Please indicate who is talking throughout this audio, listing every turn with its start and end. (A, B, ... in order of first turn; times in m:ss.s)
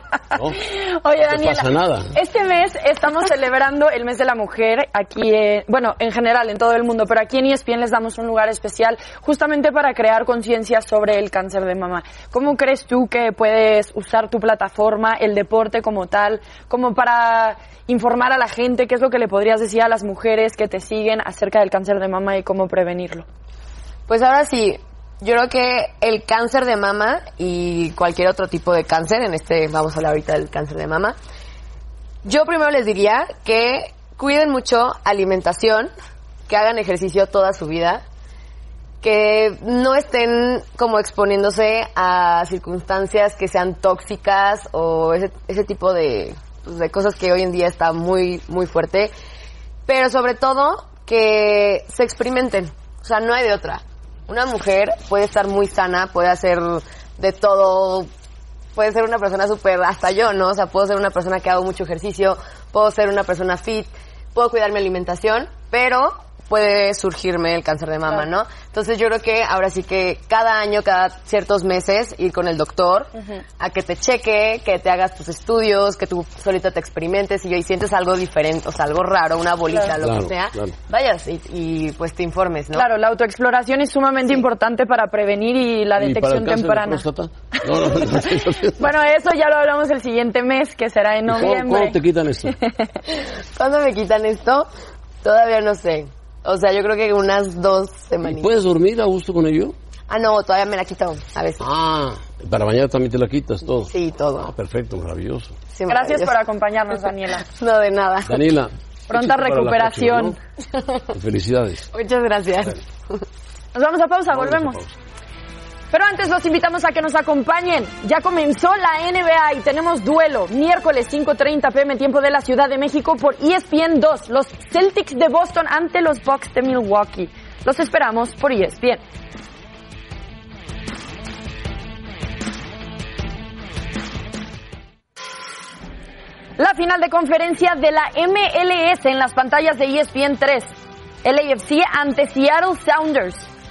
0:00.3-0:00.6 A
0:00.7-0:23.2 B
0:01.2-0:02.1 A
0:24.1-0:31.2 C
0:32.2-0:35.9 C
0:36.5-0:38.0 C
0:39.0-0:49.1 C
0:49.9-0:58.1 C
0:58.8-1:22.9 C
1:20.0-1:20.8 A
1:22.8-1:27.0 B
1:26.0-1:28.9 A
1:27.8-1:32.9 B
1:31.3-1:32.6 A
1:33.2-1:34.7 C
1:35.2-1:38.5 C
1:38.2-1:39.8 A
1:40.1-1:41.6 C
1:41.6-1:45.6 A
1:43.9-1:44.5 C
1:45.7-1:48.4 C
1:45.9-1:47.5 B
1:48.2-1:50.4 A
1:49.1-1:50.4 B
1:51.1-1:51.9 A
1:51.9-1:53.2 C
1:53.7-1:54.8 B
1:54.3-1:55.0 A
1:55.9-2:09.0 B
2:16.6-2:20.7 B
2:21.2-2:23.5 B